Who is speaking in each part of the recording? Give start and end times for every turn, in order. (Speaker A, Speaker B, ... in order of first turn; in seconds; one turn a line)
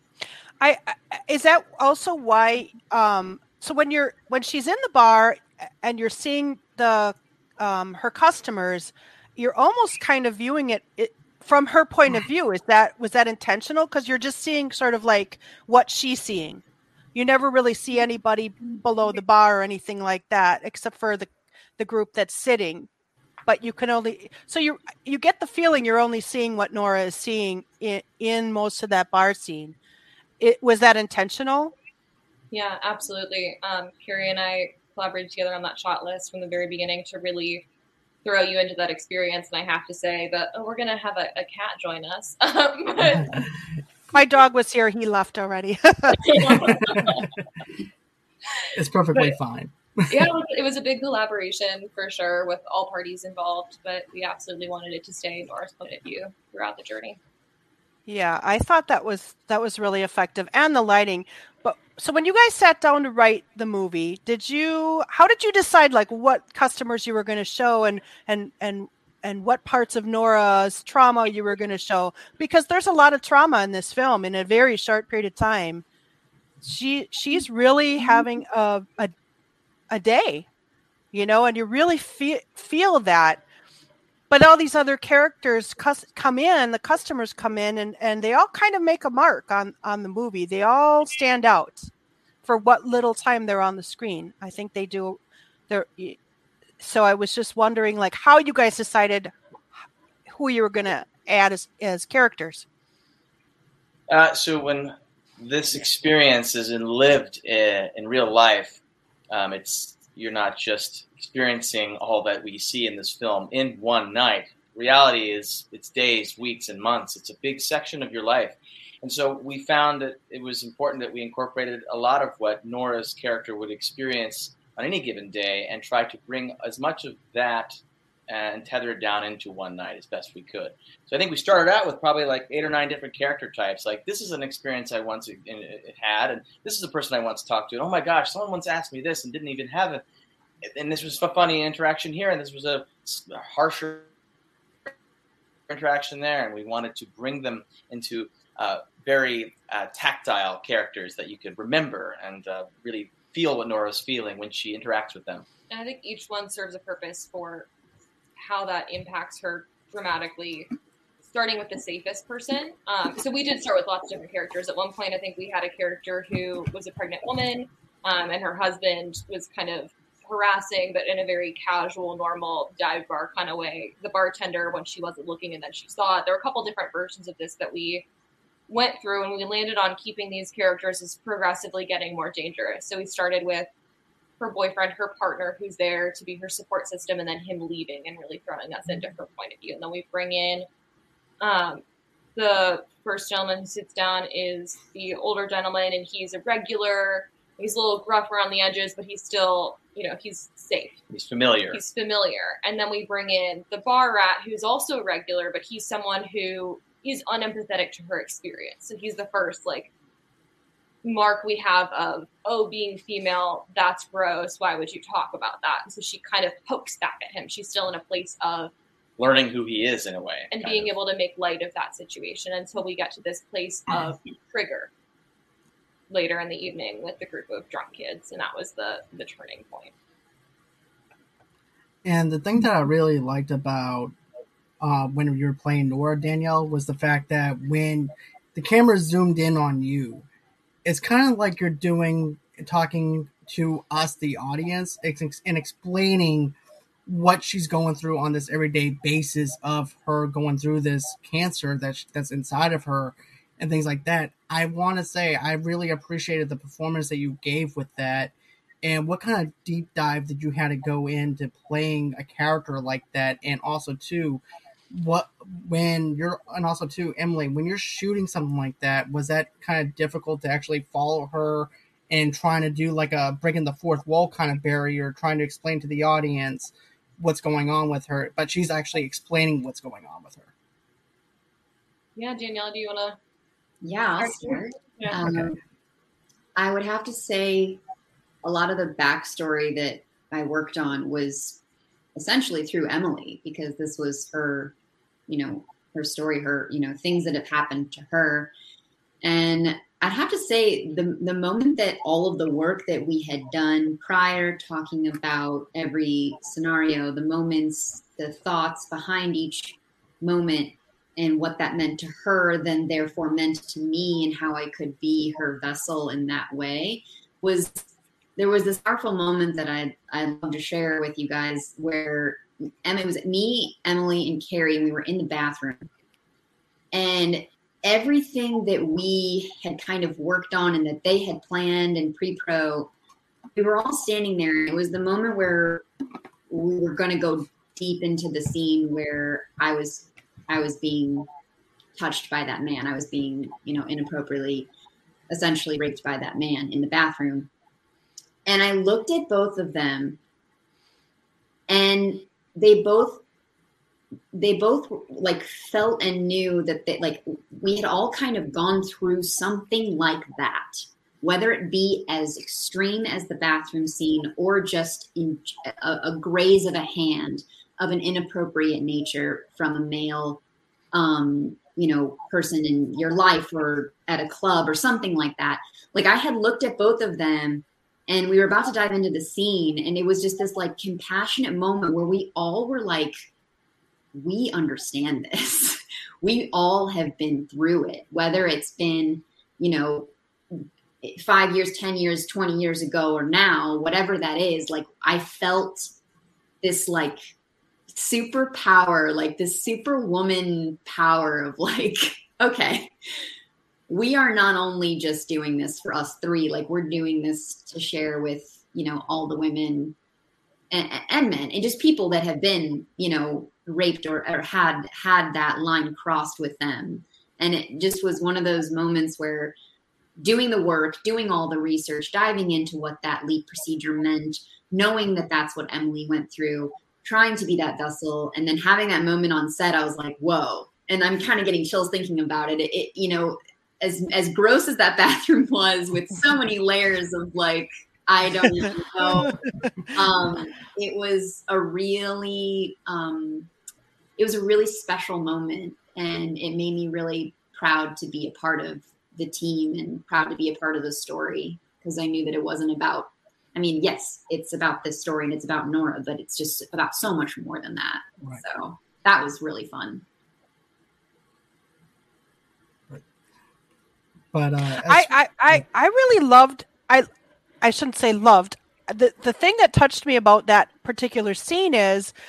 Speaker A: 0.6-16.6
Speaker A: 17.1-22.9
Speaker A: 23.4-29.8
Speaker A: 30.4-31.8
Speaker B: 32.5-37.6
Speaker B: 38.2-43.4
Speaker C: 43.1-43.4
Speaker A: 44.1-46.4
Speaker B: 46.2-47.3
Speaker C: 46.5-47.2
Speaker C: 48.7-50.3
Speaker B: 50.1-57.2
Speaker A: 58.1-75.8
Speaker A: 76.6-79.1
Speaker A: 79.9-80.5
Speaker A: 81.1-83.4
Speaker A: 84.3-91.9
Speaker A: 92.4-96.2
Speaker A: 96.8-99.3
Speaker A: 100.3-102.7
Speaker D: 104.1-108.8
Speaker D: 109.3-127.7
Speaker D: 128.3-140.0
Speaker D: 140.6-144.1
Speaker D: 145.7-155.4
Speaker B: 155.7-157.7
Speaker B: 158.4-160.7
Speaker B: 161.3-178.1
Speaker B: 178.7-183.7
Speaker B: 184.4-190.7
Speaker B: 191.4-191.8
Speaker B: 192.4-201.0
Speaker D: 201.1-201.8
Speaker B: 201.7-209.9
Speaker B: 211.0-218.7
Speaker D: 219.2-220.9
Speaker B: 220.5-224.9
Speaker B: 226.1-229.9
Speaker C: 232.0-234.1
Speaker C: 234.8-240.3
Speaker C: 240.8-246.6
Speaker C: 247.1-280.5
Speaker B: 282.2-283.2
Speaker E: 283.8-285.6
Speaker B: 284.2-285.2
Speaker E: 286.6-287.8
Speaker E: 288.4-291.6
Speaker E: 292.1-294.8
Speaker E: 295.3-298.5
Speaker E: 299.2-325.9
Speaker E: 326.9-332.9
Speaker E: 333.6-335.9
Speaker E: 336.5-341.3
Speaker E: 342.0-344.7
Speaker E: 345.3-347.5
Speaker E: 348.5-350.2
Speaker E: 351.7-353.2
Speaker E: 354.3-370.4
Speaker E: 370.9-383.1
Speaker E: 384.1-395.9
Speaker E: 396.6-397.2
Speaker E: 397.9-402.9
Speaker E: 403.9-410.0
Speaker E: 410.7-419.6
Speaker E: 420.2-439.4
Speaker A: 438.5-439.9
Speaker E: 439.9-443.5
Speaker E: 444.2-460.0
Speaker C: 464.3-465.6
Speaker A: 464.8-467.1
Speaker A: 467.6-472.1